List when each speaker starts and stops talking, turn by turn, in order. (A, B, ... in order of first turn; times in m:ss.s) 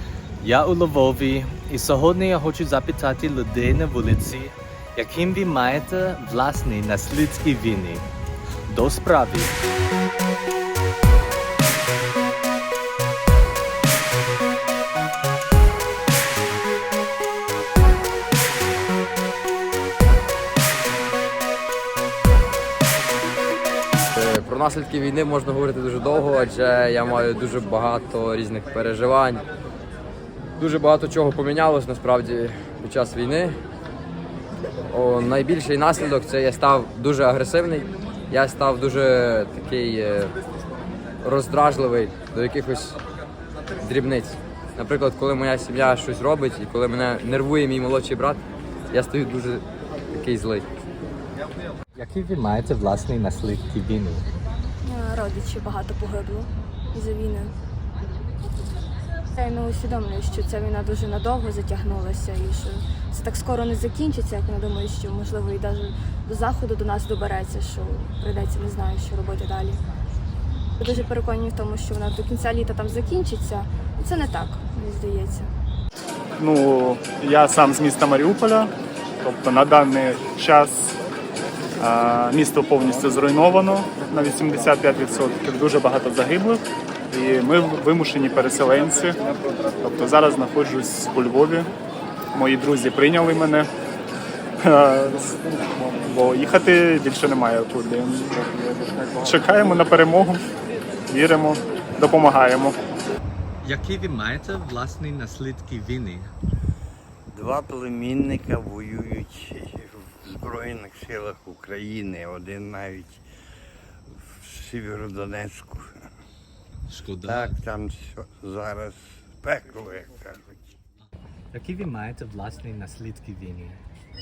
0:00.4-0:08.1 A
0:08.7-0:09.6 A
0:24.2-0:29.4 B
0:30.6-0:33.6 B
0:34.9-0:40.3 B
0:41.2-0:43.0 B
0:43.8-0:49.6 B
0:50.2-0:50.7 B
0:52.0-0:54.2 A
0:54.8-0:57.5 C
0:59.4-1:09.8 C
1:10.8-1:15.5 C
1:16.4-1:18.7 D
1:19.2-1:21.0 D
1:21.8-1:29.2 D
1:29.8-1:31.7 D
1:32.4-1:33.7 D
1:34.6-1:40.4 D
1:41.1-1:42.8 D
1:43.6-1:46.3 A
1:47.3-1:53.2 E
1:54.2-1:56.0 E
1:56.9-1:57.6 A
1:57.2-2:00.8 E
2:01.5-2:03.8 A